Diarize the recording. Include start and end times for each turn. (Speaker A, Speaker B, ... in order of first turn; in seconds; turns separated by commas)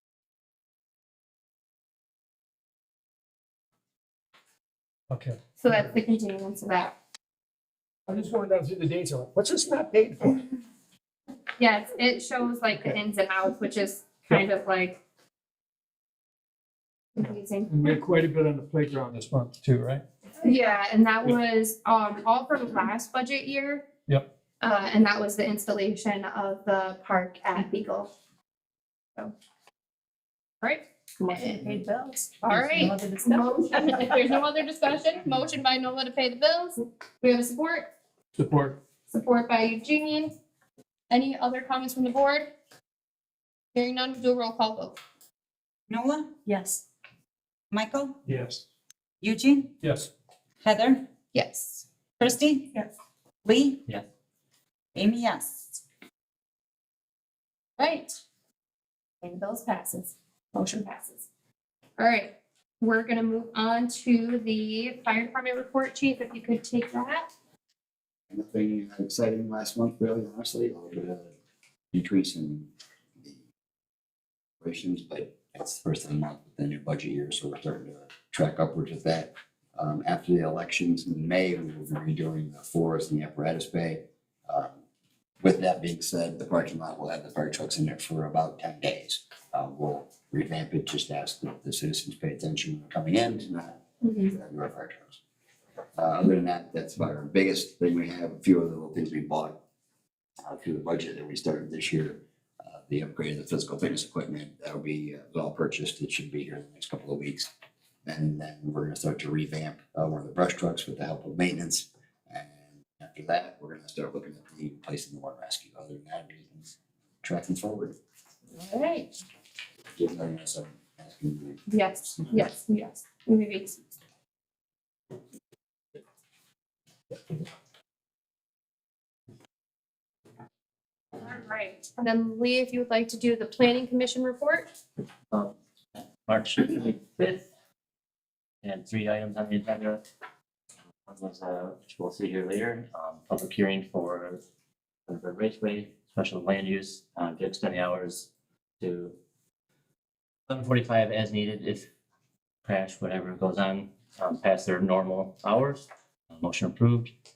Speaker A: 5.1-6.0, Speaker B: 5.6-7.0, Speaker A: 8.1-10.5, Speaker B: 11.6-15.0, Speaker B: 17.1-18.1, Speaker A: 17.7-20.0, Speaker B: 20.4-23.9, Speaker B: 24.6-28.1, Speaker B: 30.6-31.8, Speaker C: 31.2-34.3, Speaker B: 32.5-37.9, Speaker A: 38.4-38.8, Speaker B: 39.1-40.3, Speaker B: 41.1-42.5, Speaker B: 43.7-45.0, Speaker D: 45.9-46.3, Speaker C: 46.5-46.8, Speaker D: 47.7-48.2, Speaker A: 48.2-48.6, Speaker D: 49.2-49.8, Speaker A: 49.8-50.1, Speaker D: 50.6-51.1, Speaker B: 51.3-51.9, Speaker D: 52.2-52.7, Speaker D: 53.4-53.9, Speaker D: 55.0-55.8, Speaker B: 57.8-58.2, Speaker B: 59.2-61.2, Speaker B: 62.0-67.3, Speaker E: 68.3-71.3, Speaker E: 71.9-72.7, Speaker E: 74.6-84.8, Speaker E: 85.4-95.2, Speaker B: 94.0-94.3, Speaker E: 96.0-99.6, Speaker E: 100.4-107.5, Speaker E: 108.1-116.7, Speaker E: 117.2-118.0, Speaker B: 118.6-119.1, Speaker E: 120.0-121.6, Speaker B: 121.7-123.8, Speaker B: 131.2-134.7, Speaker F: 136.3-137.4, Speaker F: 138.6-140.0, Speaker F: 141.1-144.4, Speaker F: 145.1-148.3, Speaker F: 148.8-149.2, Speaker F: 150.5-151.9, Speaker F: 152.7-157.1